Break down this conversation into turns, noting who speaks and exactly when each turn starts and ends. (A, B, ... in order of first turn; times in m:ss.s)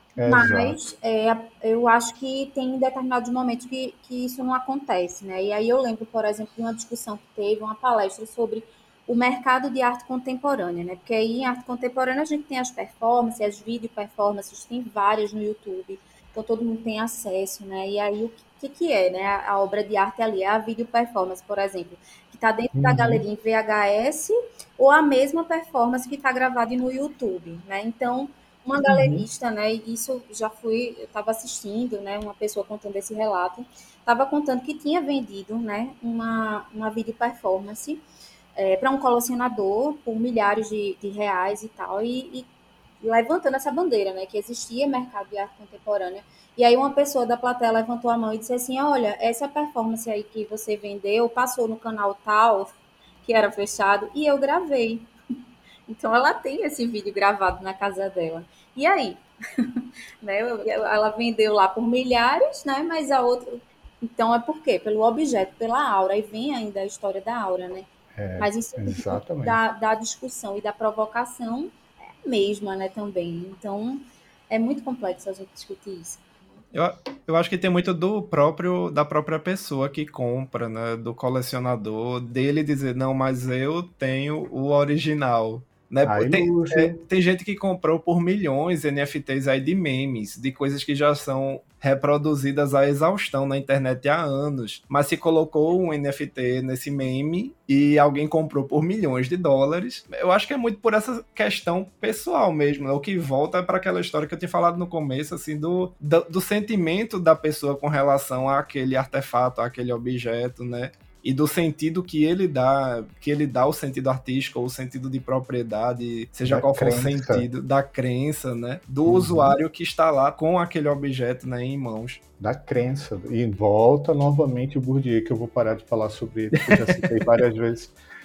0:00.2-0:00.9 A
0:00.2-0:38.0 B
0:22.8-0:23.2 A
0:28.9-0:29.3 A
0:38.6-0:42.5 B
0:43.0-0:52.7 B
0:53.2-0:55.1 B
0:55.9-1:16.4 B
1:08.2-1:09.6 A
1:16.7-2:02.2 C
1:26.0-1:27.0 A
1:56.4-1:57.5 A
1:59.1-1:59.6 A
2:02.4-2:08.0 A
2:06.6-2:07.0 C